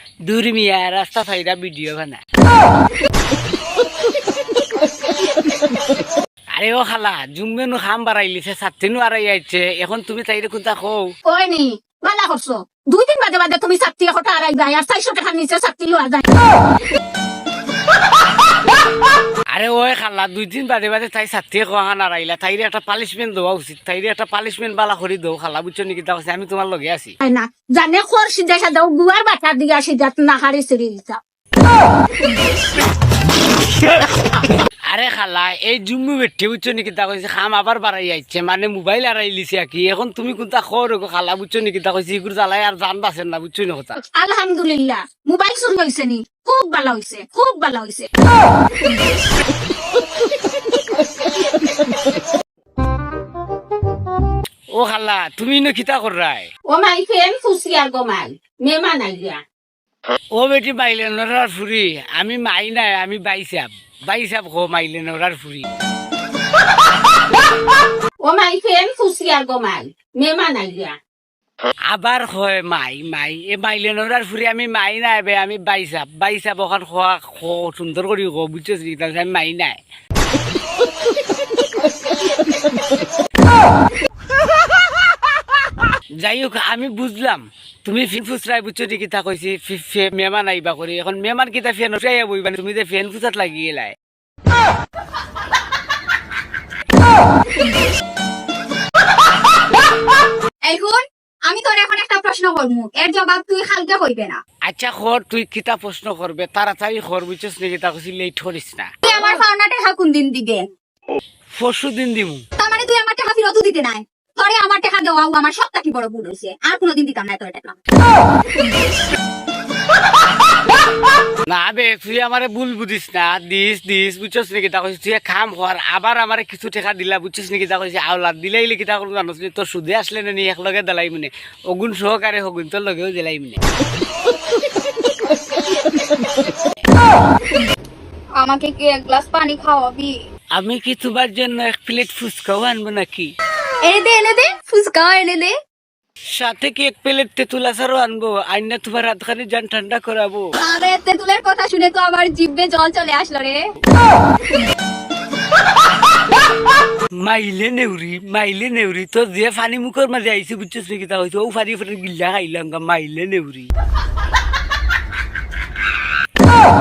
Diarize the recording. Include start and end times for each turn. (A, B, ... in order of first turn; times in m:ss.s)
0:00.3-0:02.2 A
0:06.5-0:11.0 A
0:11.2-0:16.2 B
0:19.5-0:27.1 A
0:27.2-0:31.2 B
0:34.9-0:44.0 A
0:44.2-0:48.1 B
0:54.7-0:56.5 A
0:56.7-0:59.4 B
1:00.3-1:05.7 A
1:08.2-1:11.0 B
1:11.9-1:19.8 A
1:26.2-1:33.9 A
1:40.7-1:44.4 C
1:44.7-1:48.9 A
1:49.0-1:50.7 C
1:51.6-1:52.4 A
1:52.6-1:57.8 C
2:01.5-2:13.6 A
2:18.4-2:20.1 C
2:20.5-2:23.3 A
2:23.8-2:25.5 C
2:26.3-2:30.5 A
2:30.6-2:33.6 C
2:37.2-2:43.7 A